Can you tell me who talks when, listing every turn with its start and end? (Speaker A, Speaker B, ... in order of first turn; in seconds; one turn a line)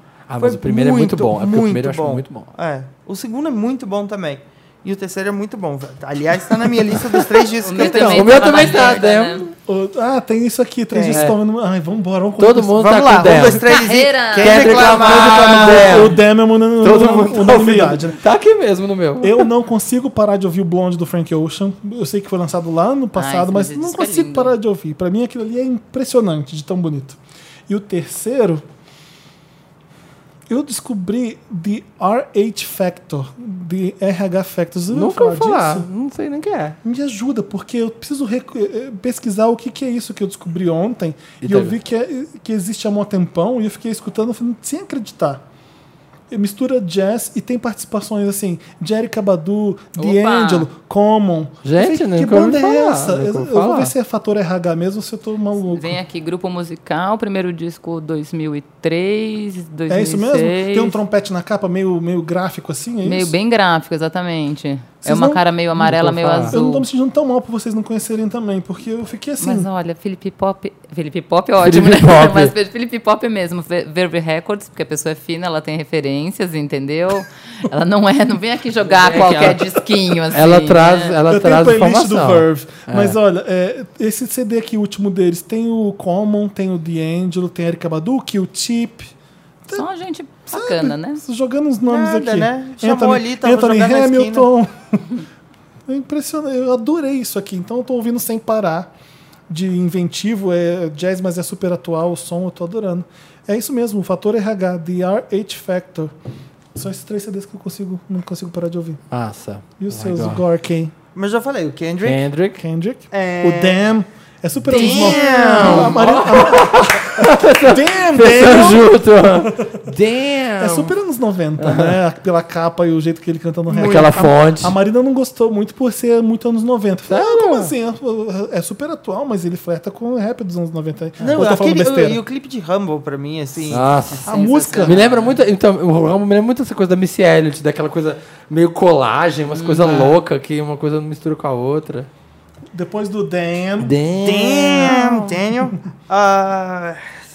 Speaker A: 0.3-2.5
Speaker B: 0.4-8.9
Speaker C: 7.6-9.5
Speaker A: 7.7-9.5
Speaker D: 9.7-13.6
Speaker B: 10.9-11.3
Speaker A: 11.1-11.4
Speaker A: 12.4-16.2
Speaker B: 12.8-16.1
Speaker C: 13.7-14.9
Speaker D: 14.9-18.2
Speaker A: 16.8-19.5
Speaker D: 19.2-28.6
Speaker C: 23.1-24.5
Speaker D: 30.5-35.9
Speaker A: 34.9-36.8
Speaker D: 36.8-45.4
Speaker A: 41.4-41.7
Speaker D: 46.3-56.0
Speaker C: 50.0-50.7
Speaker A: 51.6-53.9
Speaker C: 55.7-61.0
Speaker D: 59.9-63.4
Speaker C: 63.0-66.9
Speaker D: 65.0-65.4
Speaker A: 65.8-66.5
Speaker D: 66.5-69.7
Speaker C: 69.4-81.2
Speaker A: 71.6-72.5
Speaker A: 78.9-79.7
Speaker A: 80.3-83.2
Speaker D: 81.3-89.1
Speaker C: 89.7-91.2
Speaker D: 90.5-95.2
Speaker B: 91.9-94.5
Speaker D: 95.9-98.9
Speaker D: 99.5-106.1
Speaker D: 106.8-109.0
Speaker A: 109.1-110.4
Speaker D: 109.8-110.9
Speaker B: 111.2-112.2
Speaker A: 112.0-112.6
Speaker D: 112.6-119.8
Speaker B: 113.1-113.8
Speaker B: 114.7-116.2
Speaker A: 114.7-121.0
Speaker D: 120.6-132.2
Speaker A: 121.6-122.0
Speaker B: 123.7-124.3
Speaker A: 123.7-124.8
Speaker A: 127.1-127.7
Speaker B: 131.2-133.9
Speaker A: 133.7-142.1
Speaker C: 134.2-135.4
Speaker D: 134.3-135.0
Speaker C: 139.5-140.2
Speaker D: 142.7-145.8
Speaker A: 143.8-144.9
Speaker B: 144.4-147.0